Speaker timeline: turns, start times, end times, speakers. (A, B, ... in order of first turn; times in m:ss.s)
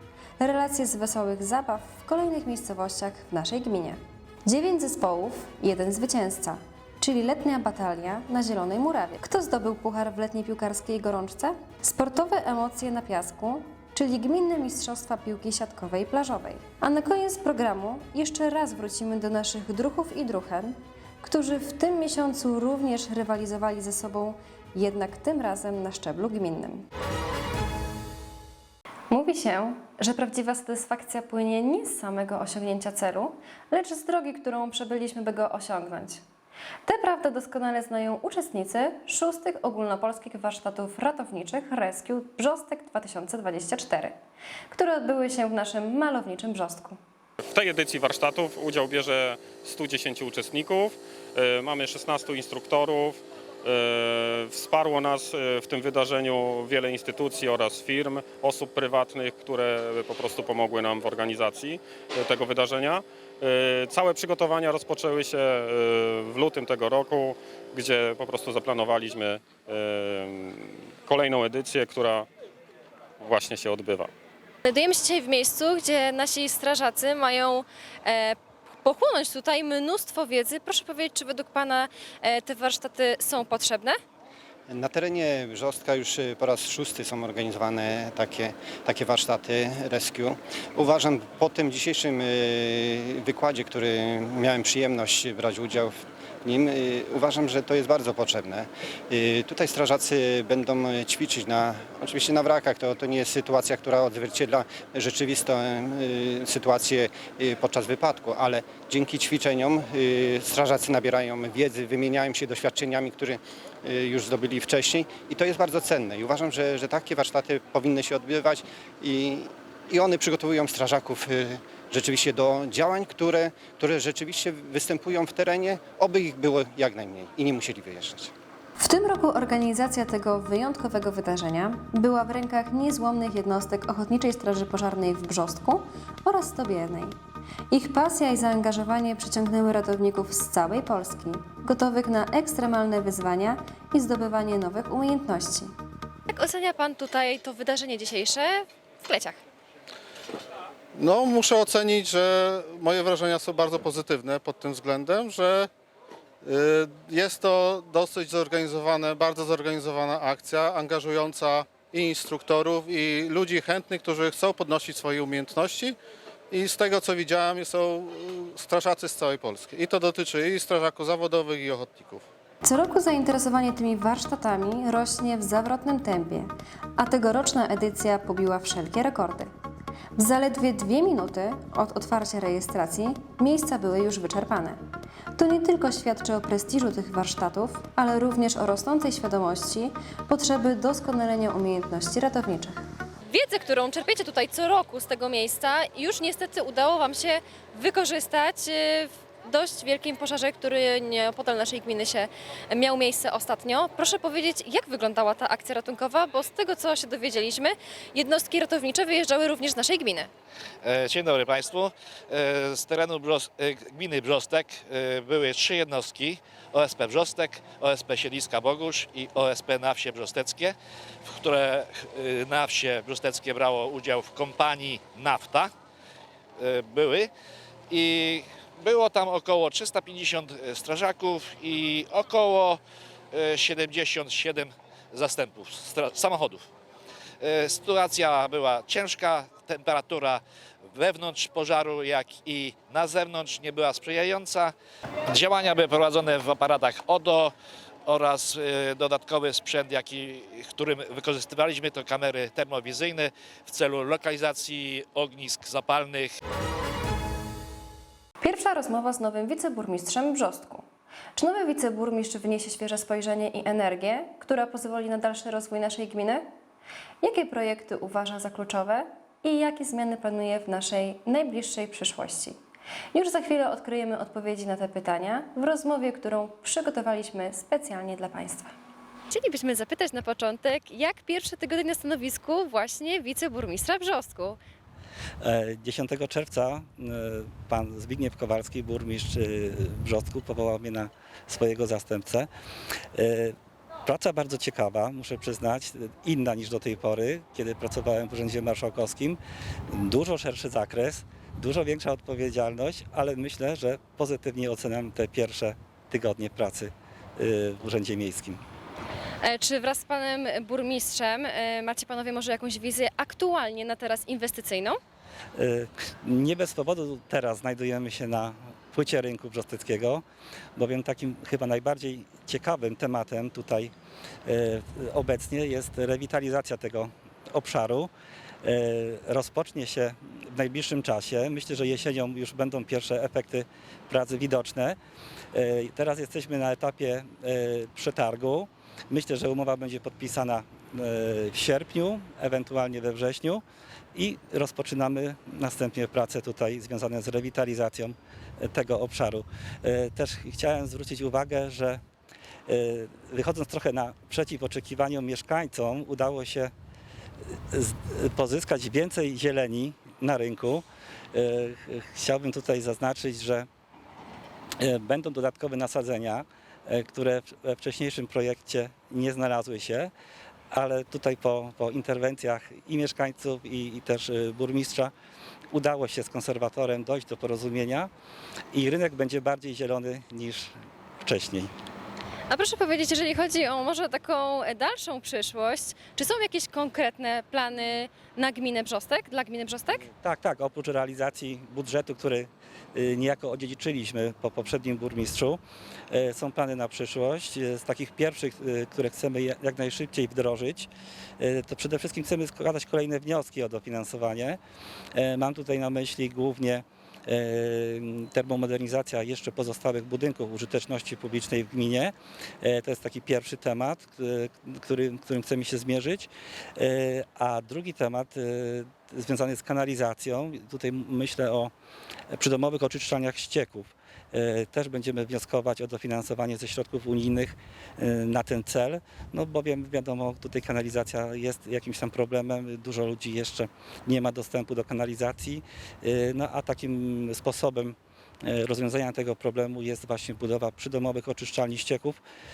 0:00.4-0:26.9 A
0:29.1-0:36.2 A
0:36.8-0:44.2 A
0:44.7-0:47.0 A
0:47.4-1:12.3 B
1:13.2-1:14.1 B
1:14.6-1:24.0 C
1:24.7-2:08.3 D
2:08.8-2:17.2 A
2:17.7-2:25.7 A
2:26.3-2:29.4 C
2:31.0-2:35.7 E
2:36.4-2:46.0 E
2:46.5-2:52.2 E
2:52.6-2:59.5 A
3:00.2-3:04.8 A
3:05.4-3:12.8 A
3:13.3-3:30.3 C
3:30.8-3:45.7 F
3:46.6-3:47.3 F
3:47.9-3:52.8 F
3:53.3-3:56.7 F
3:57.4-4:00.4 F
4:00.9-4:04.7 F
4:05.3-4:07.5 F
4:08.0-4:16.4 F
4:18.4-4:26.5 A
4:27.2-4:32.6 A
4:33.1-4:38.7 A
4:39.3-4:44.6 C
4:45.4-4:52.5 G
4:53.1-5:08.6 G
5:09.4-5:15.0 C
5:15.6-5:20.2 G
5:20.8-5:23.9 G
5:24.4-5:28.1 G
5:28.6-5:35.0 G
5:35.5-5:43.6 G
5:44.1-5:52.0 G
5:52.7-5:56.7 G
5:57.7-6:03.7 G
6:04.8-6:10.1 G
6:10.7-6:15.1 G
6:15.7-6:18.1 G
6:18.7-6:21.7 G
6:22.5-6:30.0 C
6:30.2-6:35.6 G
6:36.1-6:44.6 G
6:45.1-7:01.7 G
7:02.3-7:22.2 G